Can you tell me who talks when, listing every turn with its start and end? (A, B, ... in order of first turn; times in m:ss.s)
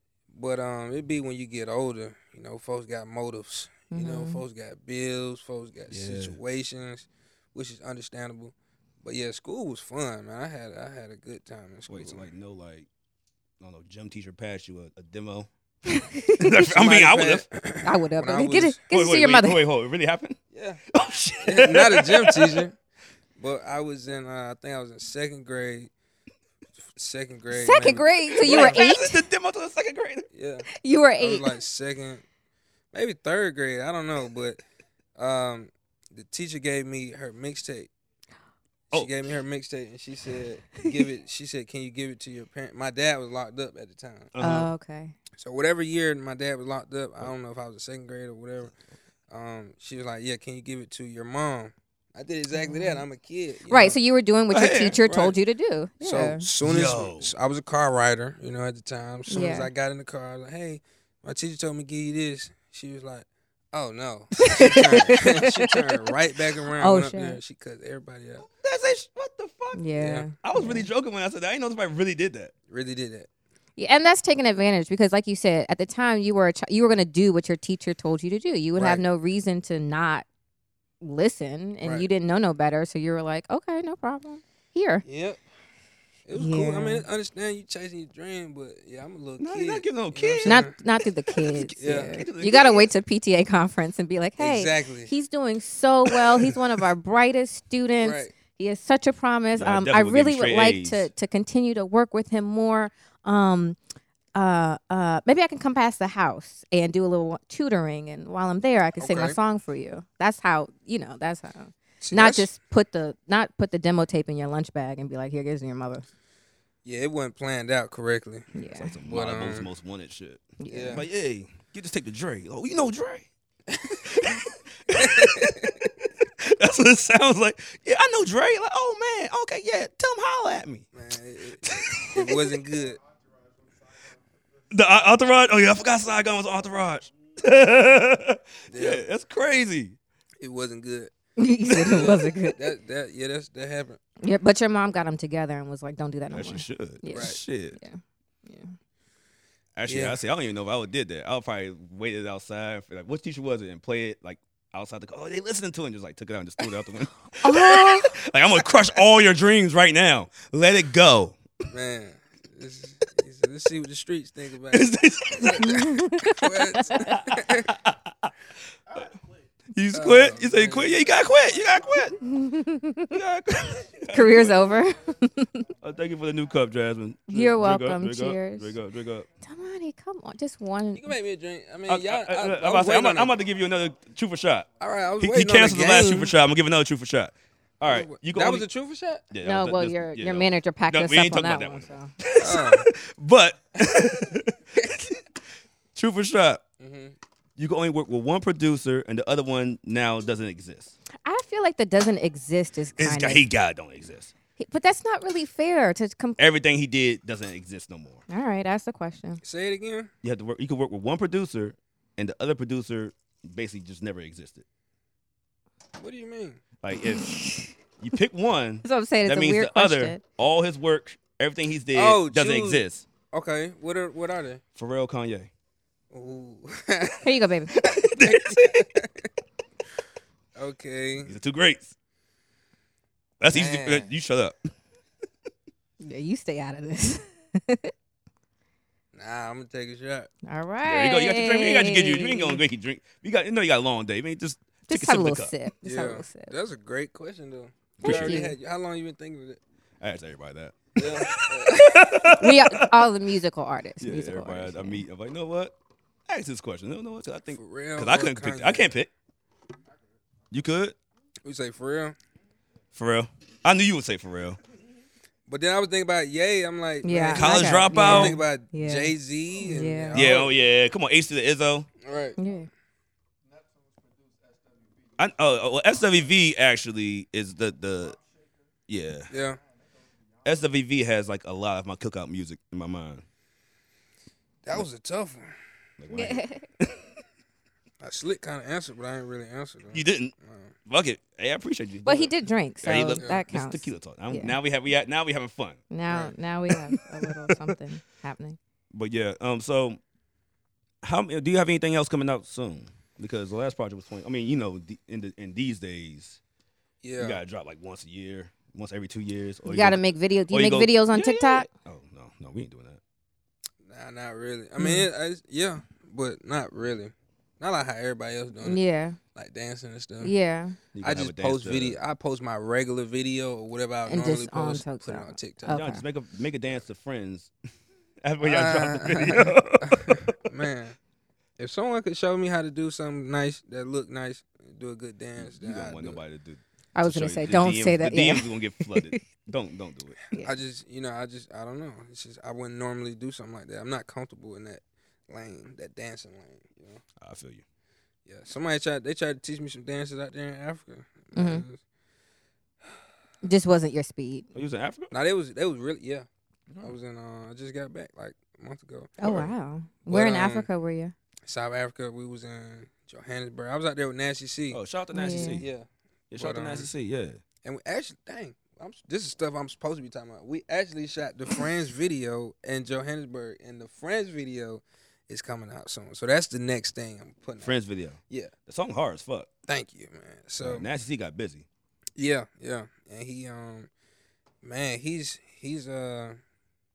0:00.3-0:12.3 A
0:03.9-0:04.4 B
0:05.9-0:06.4 C
0:11.9-0:12.9 C
0:13.6-0:15.5 C
0:15.9-0:16.5 B
0:16.3-0:17.5 C
0:16.5-0:18.8 A
0:17.8-0:19.6 B
0:18.9-0:20.4 C
0:20.5-0:20.8 A
0:20.9-0:22.6 C
0:21.4-0:22.7 A
0:23.4-0:25.9 A
0:26.9-0:28.8 A
0:27.5-0:29.2 B
0:28.3-0:30.3 C
0:30.3-0:30.7 A
0:30.7-0:31.6 B
0:31.2-0:32.2 A
0:32.9-0:34.6 A
0:35.2-0:37.9 A
0:38.9-0:44.3 A
0:44.3-0:44.7 C
0:44.4-0:45.1 B
0:45.4-0:48.7 A
0:49.3-0:54.0 A
0:52.5-0:53.0 B
0:53.7-0:56.5 B
0:54.5-0:55.0 C
0:55.0-0:55.3 A
0:56.0-1:08.4 A
0:56.6-0:57.3 C
0:59.3-0:59.7 B
1:04.4-1:06.0 B
1:06.6-1:07.4 B
1:08.4-1:09.8 C
1:09.7-1:10.9 B
1:10.0-1:10.3 A
1:10.4-1:12.5 C
1:12.7-1:13.3 A
1:13.8-1:20.2 B
1:18.8-1:19.0 A
1:21.0-1:25.0 B
1:21.8-1:22.1 A
1:25.0-1:25.4 A
1:26.2-1:30.7 A
1:26.3-1:27.0 B
1:29.4-1:30.7 C
1:30.4-1:43.8 B
1:31.3-1:32.9 C
1:31.8-1:32.2 A
1:34.4-1:35.1 A
1:38.0-1:38.3 A
1:39.6-1:41.1 C
1:44.3-1:56.0 B
1:49.0-1:49.4 A
1:52.0-1:52.5 A
1:56.8-1:58.5 A
1:58.5-1:59.0 B
1:58.7-2:03.3 C
1:59.0-1:59.7 A
2:00.6-2:01.0 B
2:00.7-2:01.0 A
2:03.7-2:04.0 A
2:04.0-2:10.9 C
2:05.0-2:05.7 A
2:10.9-2:13.0 A
2:11.6-2:12.4 C
2:14.7-2:20.0 C
2:18.7-2:19.0 A
2:20.4-2:21.1 A
2:21.4-2:22.6 B
2:21.7-2:24.0 A
2:24.2-2:28.7 B
2:26.3-2:27.8 C
2:27.1-2:27.4 A
2:29.8-2:41.4 C
2:29.9-2:30.2 A
2:37.4-2:38.2 B
2:41.7-2:47.7 A
2:44.7-2:45.9 C
2:45.6-2:47.2 B
2:47.0-2:48.3 C
2:49.7-2:52.2 C
2:49.9-2:51.0 A
2:52.2-2:53.2 B
2:53.1-2:54.8 C
2:54.1-2:55.6 B
2:55.8-2:59.3 C
2:57.3-2:58.7 B
2:59.4-3:01.1 B
3:01.0-3:03.4 A
3:01.9-3:04.7 C
3:04.8-3:06.3 A
3:05.2-3:08.6 C
3:07.8-3:09.2 A
3:09.3-3:15.2 C
3:09.4-3:12.1 B
3:12.4-3:12.9 A
3:15.9-3:16.6 C
3:16.8-3:17.1 A
3:17.6-3:20.9 C
3:21.2-3:23.4 B
3:23.0-3:24.3 C
3:24.6-3:26.4 B
3:26.4-3:28.2 C
3:28.3-3:29.4 B
3:29.4-3:30.1 A
3:30.2-3:34.6 C
3:36.0-3:36.6 A
3:36.8-3:37.4 C
3:37.0-3:37.7 B
3:38.0-3:43.0 C
3:38.8-3:40.2 B
3:41.9-3:44.6 A
3:44.8-3:45.5 C
3:46.1-3:47.3 A
3:47.2-3:47.8 B
3:47.7-3:49.0 C
3:48.0-3:49.2 A
3:50.6-3:51.3 A
3:51.2-3:51.9 C
3:53.4-3:54.7 C
3:53.5-3:54.1 A
3:56.0-3:57.9 B
3:59.1-4:00.3 A
4:00.4-4:02.6 B
4:00.8-4:05.5 C
4:04.9-4:06.5 B
4:05.8-4:09.6 A
4:08.0-4:08.4 C
4:08.0-4:08.5 B
4:10.0-4:13.1 C
4:11.0-4:12.4 A
4:12.3-4:15.0 B
4:14.0-4:15.7 C
4:16.3-4:19.1 C
4:17.5-4:18.9 A
4:20.5-4:21.0 C
4:21.4-4:22.2 A
4:22.9-4:24.6 C
4:25.5-4:30.5 A
4:27.0-4:30.2 B
4:27.3-4:28.4 C
4:30.1-4:31.9 C
4:32.0-4:32.4 A
4:32.4-4:32.7 B
4:35.2-4:38.2 C
4:38.9-4:39.3 C
4:39.3-4:39.6 A
4:40.4-4:43.2 C
4:44.6-4:45.5 A
4:46.0-4:47.1 C
4:46.1-4:46.7 B
4:48.0-4:50.7 A
4:49.9-4:50.3 C
4:50.9-4:55.8 C
4:52.0-4:54.6 B
4:55.9-4:58.6 B
4:56.7-4:57.7 C
4:58.9-5:00.0 C
5:01.0-5:06.4 C
5:07.0-5:07.4 A
5:07.2-5:13.0 C
5:09.6-5:11.7 B
5:13.8-5:18.8 A
5:14.8-5:15.0 B
5:18.6-5:19.2 B
5:19.3-5:20.3 A
5:20.2-5:20.8 B
5:20.9-5:22.0 C
5:21.0-5:25.8 A
5:24.1-5:26.0 B
5:25.7-5:27.5 C
5:28.2-5:30.4 C
5:28.4-5:31.0 A
5:31.6-5:36.2 A
5:35.4-5:40.2 C
5:36.9-5:39.2 B
5:40.3-5:47.0 A
5:47.2-5:47.6 C
5:48.2-5:51.8 A
5:51.3-5:51.6 B
5:53.4-5:54.5 B
5:54.5-5:55.1 C
5:55.1-5:56.3 A
5:56.7-5:56.9 C
5:56.8-5:59.2 A
5:59.2-6:01.1 B
5:59.2-5:59.5 C
6:00.1-6:00.7 A
6:01.4-6:04.8 A
6:04.7-6:05.7 C
6:05.1-6:05.6 B
6:05.3-6:06.9 A
6:06.3-6:07.4 C
6:07.6-6:17.8 A
6:17.6-6:19.5 C
6:19.7-6:20.9 A
6:20.6-6:21.6 C
6:22.2-6:23.9 A
6:24.6-6:26.4 A